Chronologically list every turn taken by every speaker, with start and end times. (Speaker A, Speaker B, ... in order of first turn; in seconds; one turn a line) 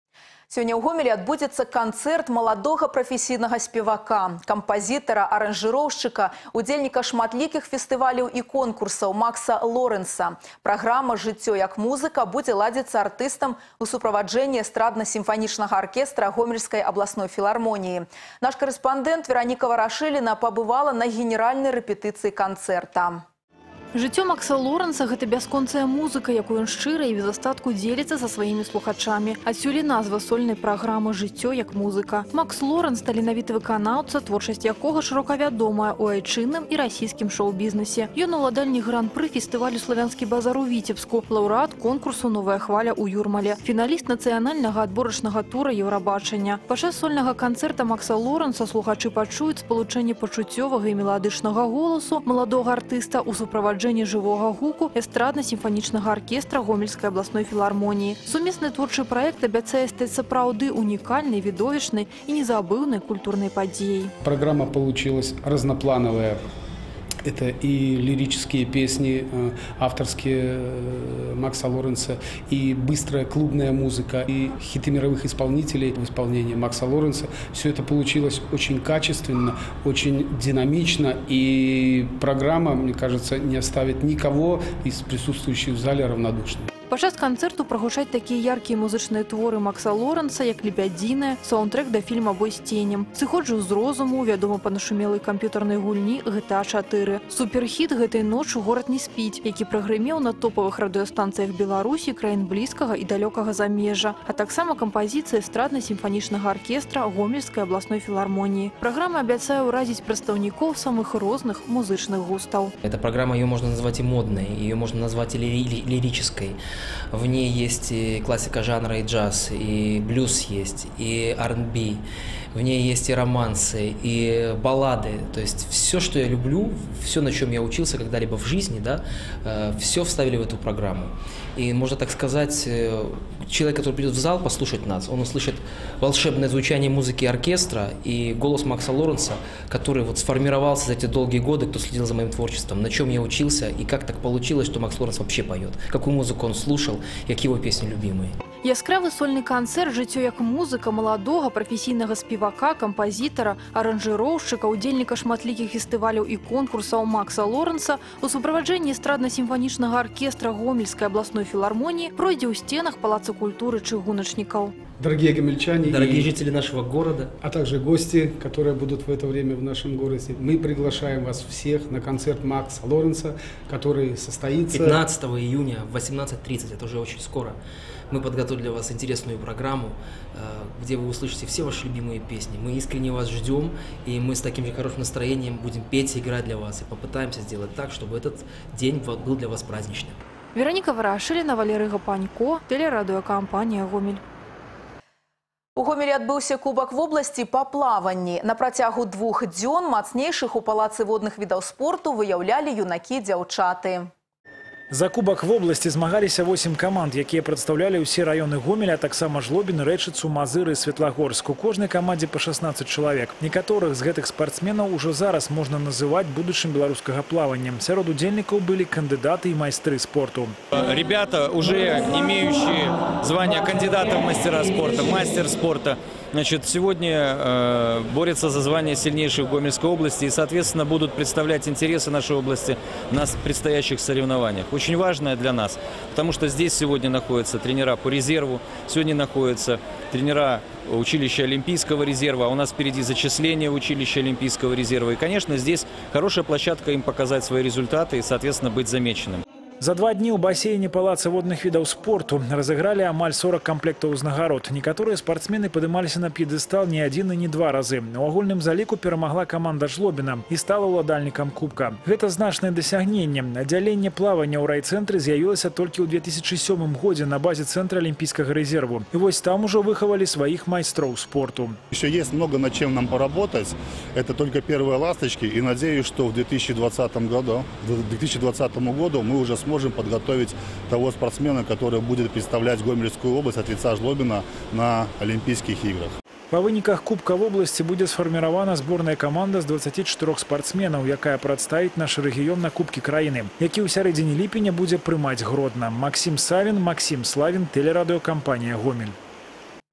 Speaker A: 0.5-23.2
Speaker B: 23.9-64.1
Speaker C: 64.2-66.4
Speaker C: 67.2-86.7
Speaker B: 86.9-112.7
Speaker D: 112.8-116.6
Speaker D: 117.1-148.3
Speaker B: 148.6-164.7
Speaker C: 165.0-166.4
Speaker D: 165.8-167.3
Speaker C: 167.4-175.0
Speaker D: 174.7-177.6
Speaker D: 178.1-190.2
Speaker B: 190.5-194.2
Speaker A: 195.8-204.1
Speaker E: 204.9-220.6
Speaker F: 220.7-249.4
Speaker E: 249.8-271.8
Speaker G: 271.9-286.1
Speaker E: 286.5-299.2